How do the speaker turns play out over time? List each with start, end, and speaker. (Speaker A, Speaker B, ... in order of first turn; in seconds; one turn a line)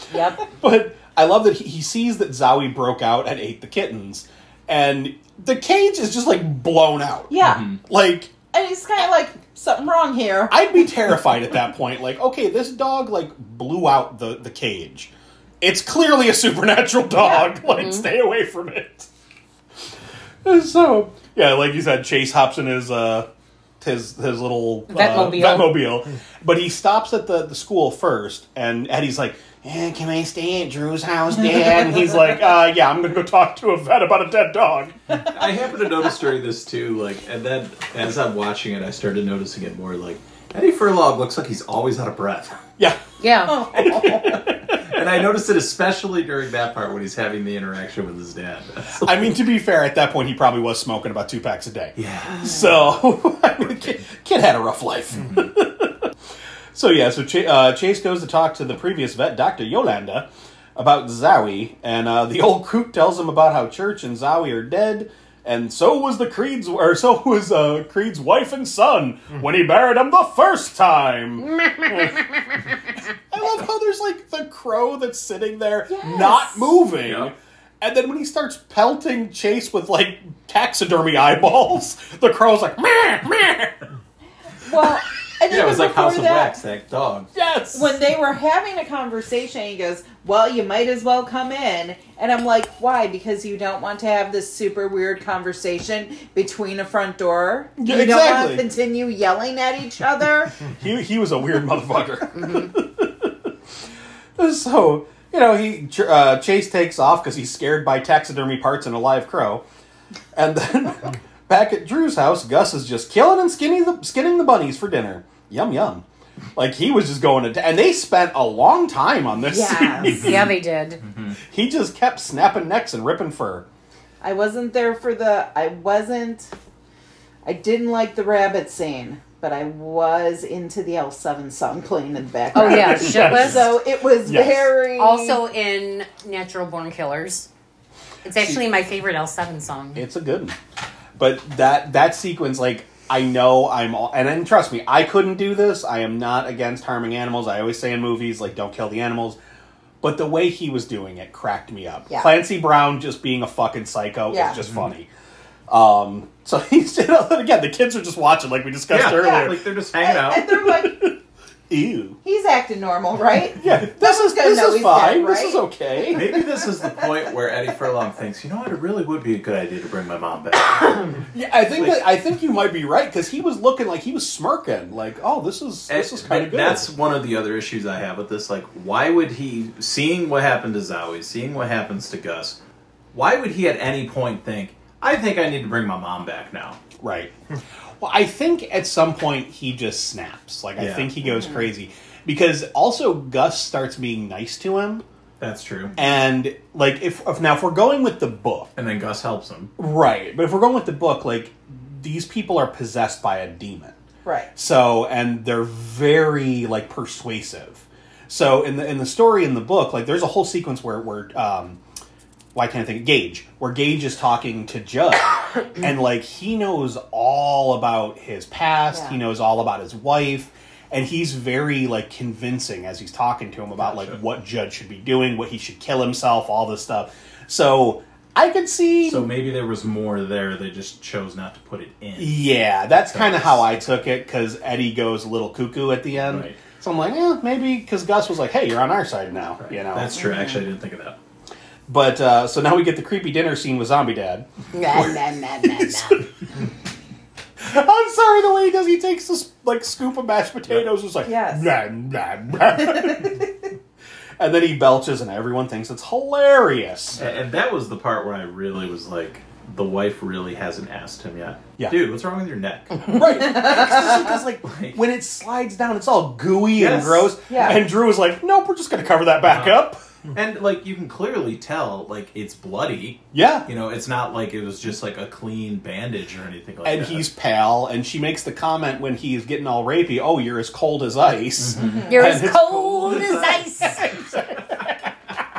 Speaker A: 0.1-0.4
Speaker B: 0.5-8.3
Speaker C: 7.3-7.7
Speaker D: 7.4-7.8
Speaker C: 8.5-10.7
Speaker B: 10.5-19.1
Speaker C: 17.2-17.5
Speaker A: 17.7-18.1
Speaker B: 20.4-23.3
Speaker B: 23.8-35.2
Speaker A: 24.9-25.8
Speaker D: 35.3-42.6
Speaker B: 42.8-44.9
Speaker A: 43.2-43.6
Speaker C: 43.5-44.4
Speaker D: 44.8-49.3
Speaker B: 49.0-56.1
Speaker D: 52.0-52.8
Speaker D: 55.2-55.5
Speaker B: 56.7-72.4
Speaker B: 73.3-83.8
Speaker C: 75.9-76.8
Speaker D: 77.0-77.3
Speaker C: 84.6-86.6
Speaker D: 85.5-87.3
Speaker B: 87.3-88.0
Speaker C: 87.7-100.5
Speaker B: 97.8-98.7
Speaker B: 100.6-103.5
Speaker A: 102.4-102.7
Speaker B: 104.4-109.6
Speaker B: 110.3-116.0
Speaker B: 116.5-120.5
Speaker C: 119.5-120.4
Speaker A: 120.0-121.0
Speaker D: 121.0-121.4
Speaker B: 121.5-123.6
Speaker C: 124.2-126.5
Speaker C: 127.4-135.4
Speaker A: 132.5-133.7
Speaker B: 132.5-134.7
Speaker A: 134.9-137.5
Speaker A: 138.2-140.1
Speaker B: 138.3-138.6
Speaker B: 139.9-140.6
Speaker B: 141.2-149.4
Speaker B: 150.0-155.1
Speaker C: 154.3-154.6
Speaker B: 155.7-159.6
Speaker D: 158.9-160.7
Speaker C: 159.2-161.1
Speaker B: 160.6-161.2
Speaker B: 161.7-162.2
Speaker C: 162.2-165.6
Speaker B: 163.6-166.4
Speaker D: 166.1-172.1
Speaker C: 166.4-166.9
Speaker B: 171.3-176.9
Speaker D: 175.9-182.6
Speaker D: 183.1-186.8
Speaker B: 187.0-187.3
Speaker B: 188.0-195.0
Speaker D: 190.8-191.1
Speaker D: 195.4-195.9
Speaker B: 195.9-198.7
Speaker D: 198.8-199.7
Speaker B: 199.8-203.9
Speaker C: 204.2-204.5
Speaker B: 204.6-211.8
Speaker B: 212.5-229.3
Speaker C: 218.9-219.2
Speaker D: 223.8-224.2
Speaker D: 229.0-233.7
Speaker B: 232.2-240.2
Speaker D: 236.2-236.6
Speaker D: 239.6-241.2
Speaker B: 241.9-246.2
Speaker A: 244.7-246.2
Speaker B: 247.6-253.5
Speaker C: 251.2-251.7
Speaker C: 252.9-253.3
Speaker B: 254.4-257.2
Speaker D: 257.1-263.1
Speaker B: 263.0-270.0
Speaker D: 263.7-265.0
Speaker D: 266.7-267.8
Speaker C: 267.5-267.8
Speaker D: 269.4-269.8
Speaker D: 270.3-277.2
Speaker B: 273.3-273.7
Speaker B: 276.8-285.1
Speaker D: 281.6-282.3
Speaker C: 281.8-282.1
Speaker A: 282.1-284.1
Speaker D: 283.1-283.5